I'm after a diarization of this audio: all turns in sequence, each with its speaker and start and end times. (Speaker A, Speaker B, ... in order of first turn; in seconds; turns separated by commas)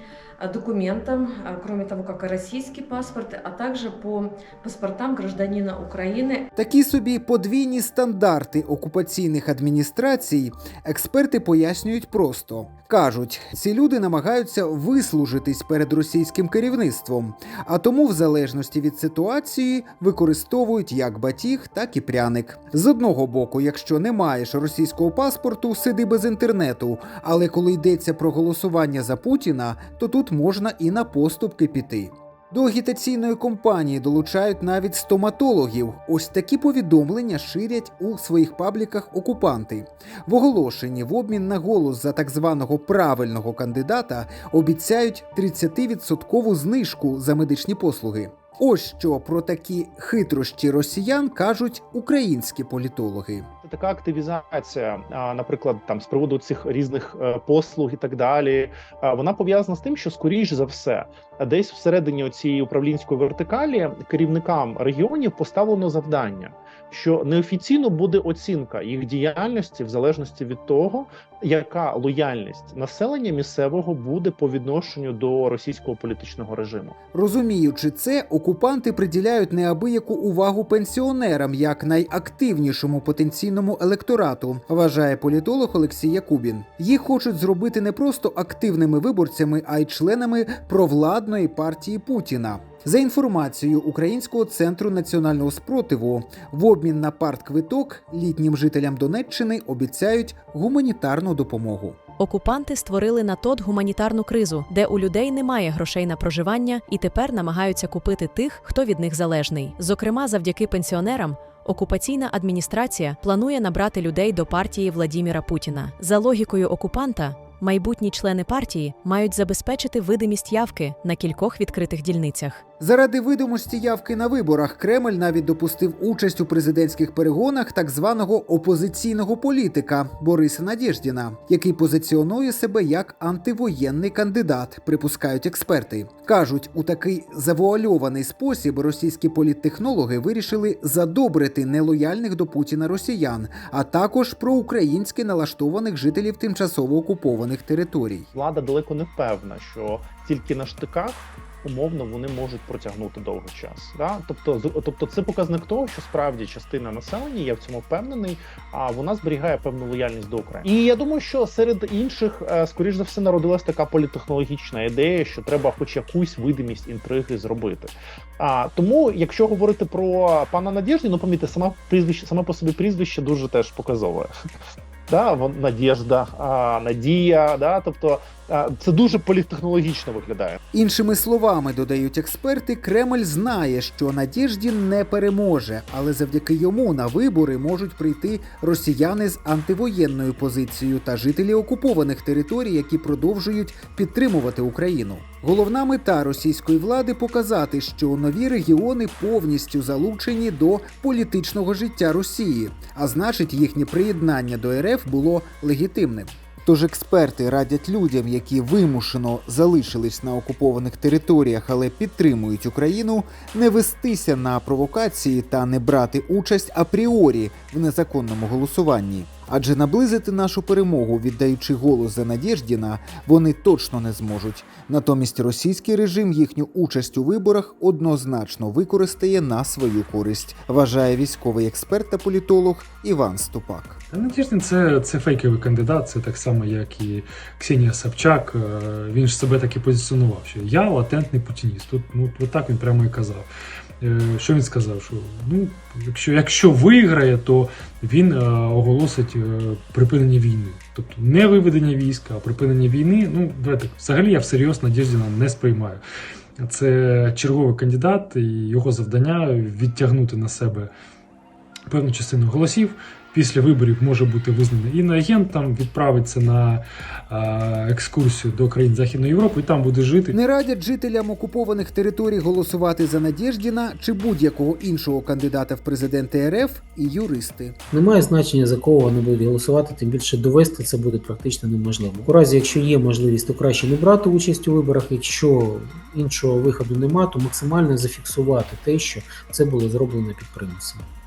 Speaker A: 0.4-6.4, Speaker B: 6.5-53.5, Speaker C: 53.6-76.9, Speaker B: 77.1-102.0, Speaker D: 102.2-122.6, Speaker B: 122.8-148.3, Speaker C: 148.3-174.3, Speaker C: 175.1-180.6, Speaker B: 180.7-234.0, Speaker E: 234.1-243.5, Speaker E: 244.0-256.0, Speaker E: 256.6-260.9, Speaker E: 261.9-270.4, Speaker B: 270.3-277.8, Speaker F: 277.9-291.0